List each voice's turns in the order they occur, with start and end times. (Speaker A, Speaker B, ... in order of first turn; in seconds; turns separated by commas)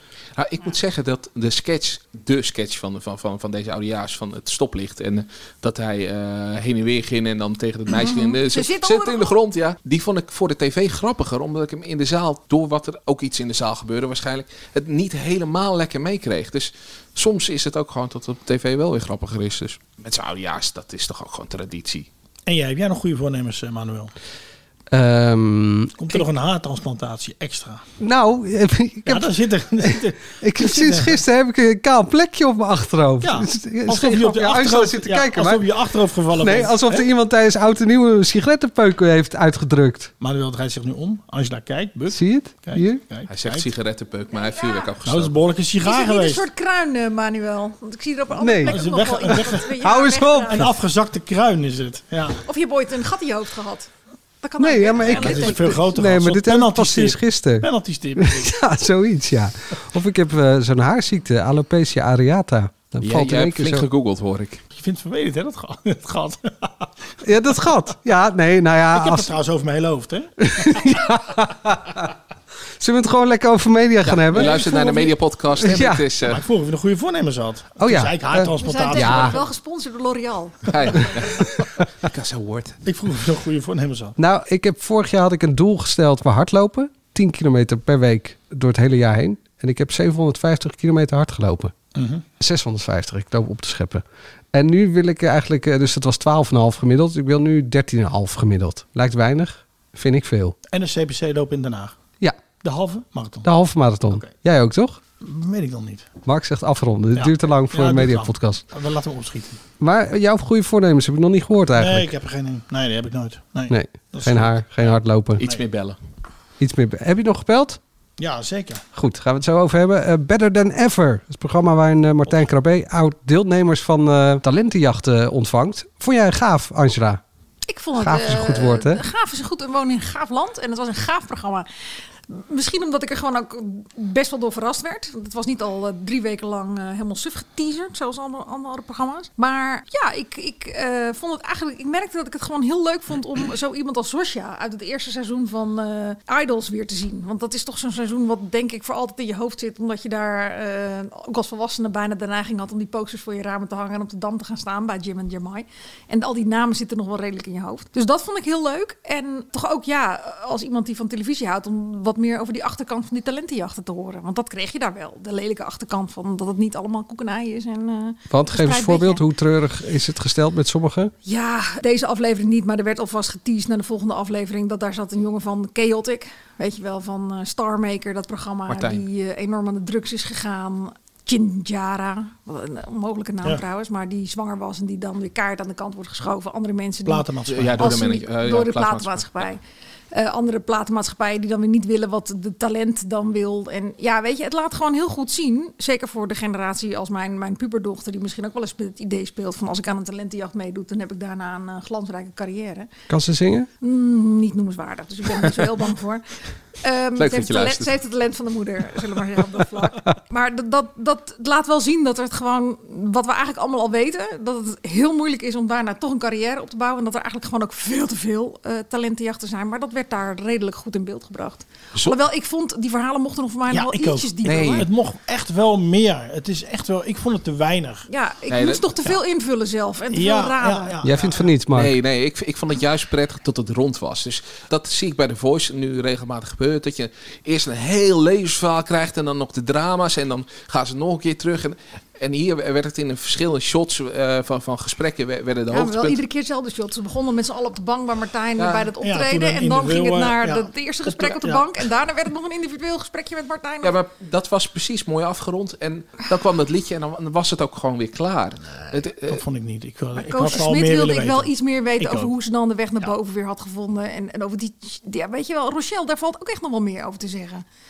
Speaker A: 0.3-22.1, Speaker B: 7.9-9.3, Speaker C: 22.4-24.1, Speaker D: 24.9-26.2, Speaker C: 26.0-27.8, Speaker D: 28.0-35.7, Speaker C: 29.1-31.2, Speaker C: 33.2-37.0, Speaker D: 36.3-40.1, Speaker C: 40.2-43.7, Speaker D: 42.1-43.0, Speaker A: 43.3-45.3, Speaker C: 45.0-46.4, Speaker B: 45.8-50.7, Speaker D: 48.4-49.0, Speaker C: 48.6-49.7, Speaker D: 49.8-50.7, Speaker C: 50.5-52.4, Speaker B: 52.4-53.9, Speaker B: 54.4-55.8, Speaker D: 54.6-63.9, Speaker C: 55.1-58.5, Speaker A: 63.0-64.6, Speaker C: 64.7-66.9, Speaker D: 67.2-69.3, Speaker C: 68.9-71.0, Speaker D: 70.4-72.0, Speaker D: 72.8-74.7, Speaker A: 74.0-76.4, Speaker C: 74.3-75.1, Speaker D: 75.6-76.1, Speaker C: 76.2-79.4, Speaker D: 77.8-79.3, Speaker B: 78.6-80.7, Speaker A: 80.7-82.8, Speaker C: 82.8-84.2, Speaker D: 84.2-91.7, Speaker C: 91.9-92.2, Speaker D: 92.4-100.5, Speaker C: 100.7-102.0, Speaker C: 102.6-103.5, Speaker D: 103.4-105.0, Speaker C: 104.1-104.3, Speaker C: 105.2-106.1, Speaker D: 106.2-108.6, Speaker C: 107.1-109.6, Speaker D: 109.8-112.1, Speaker C: 111.8-115.6, Speaker D: 113.7-115.4, Speaker A: 115.4-116.0, Speaker D: 116.6-117.8, Speaker C: 118.2-118.8, Speaker D: 118.9-127.2, Speaker B: 127.7-131.7, Speaker D: 128.0-129.0, Speaker B: 132.3-169.2, Speaker D: 168.3-171.1, Speaker B: 171.2-187.3, Speaker A: 178.7-179.0, Speaker C: 187.0-188.0, Speaker A: 187.5-189.5, Speaker B: 187.8-189.6, Speaker B: 190.1-202.9, Speaker D: 203.1-203.7, Speaker B: 203.8-206.2, Speaker B: 206.8-224.8, Speaker A: 207.2-207.9, Speaker C: 223.7-228.1, Speaker A: 224.5-224.8, Speaker B: 228.1-230.9, Speaker A: 228.5-229.2, Speaker C: 230.1-231.5, Speaker D: 231.0-231.9, Speaker A: 231.7-246.2, Speaker B: 245.7-253.9, Speaker A: 248.6-248.9, Speaker C: 249.0-251.7, Speaker A: 253.8-259.4, Speaker C: 259.2-262.3, Speaker B: 260.1-267.6